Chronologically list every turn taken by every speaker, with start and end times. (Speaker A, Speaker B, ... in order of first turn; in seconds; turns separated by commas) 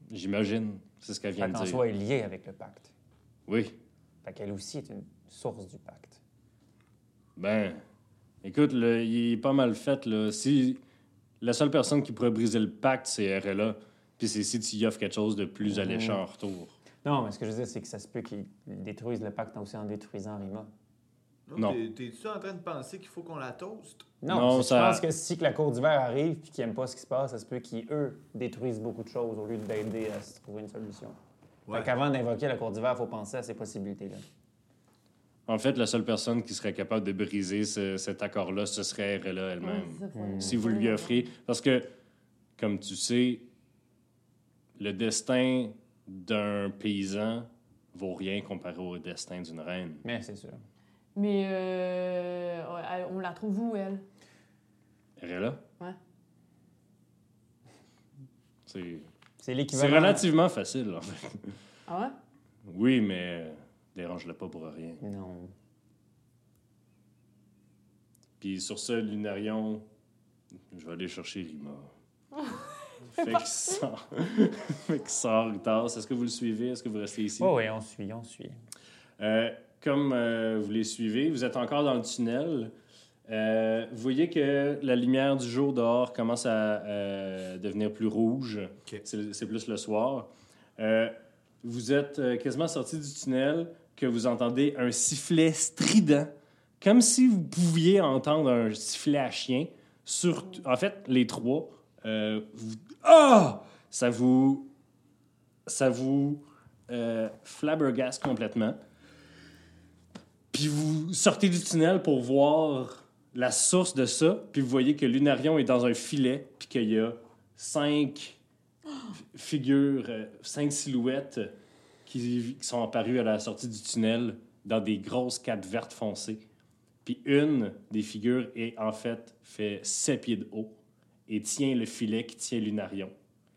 Speaker A: 0.1-1.8, Speaker B: 1.4-2.9, Speaker A: 3.5-3.7, Speaker B: 4.2-6.2, Speaker A: 7.3-7.8, Speaker A: 8.4-10.8, Speaker A: 11.4-16.7, Speaker B: 15.6-16.2, Speaker B: 17.0-20.7, Speaker C: 21.5-24.1, Speaker B: 24.2-31.2, Speaker A: 24.3-25.0, Speaker B: 31.7-34.2, Speaker A: 35.5-41.9, Speaker D: 39.6-41.2, Speaker B: 40.1-40.6, Speaker A: 42.6-43.5, Speaker A: 44.8-50.0, Speaker B: 50.0-50.6, Speaker D: 51.1-54.0, Speaker A: 55.2-55.6, Speaker A: 58.6-59.1, Speaker B: 59.4-60.2, Speaker A: 59.7-61.6, Speaker D: 61.9-62.1, Speaker A: 62.6-65.0, Speaker B: 65.0-65.5, Speaker A: 68.4-69.8, Speaker A: 70.7-71.9, Speaker A: 73.0-77.5, Speaker B: 77.4-78.6, Speaker A: 79.2-82.7, Speaker A: 83.3-104.7, Speaker A: 105.7-108.8, Speaker A: 110.5-118.4, Speaker A: 119.2-121.5, Speaker A: 122.0-126.4, Speaker A: 127.0-130.7, Speaker A: 131.3-133.1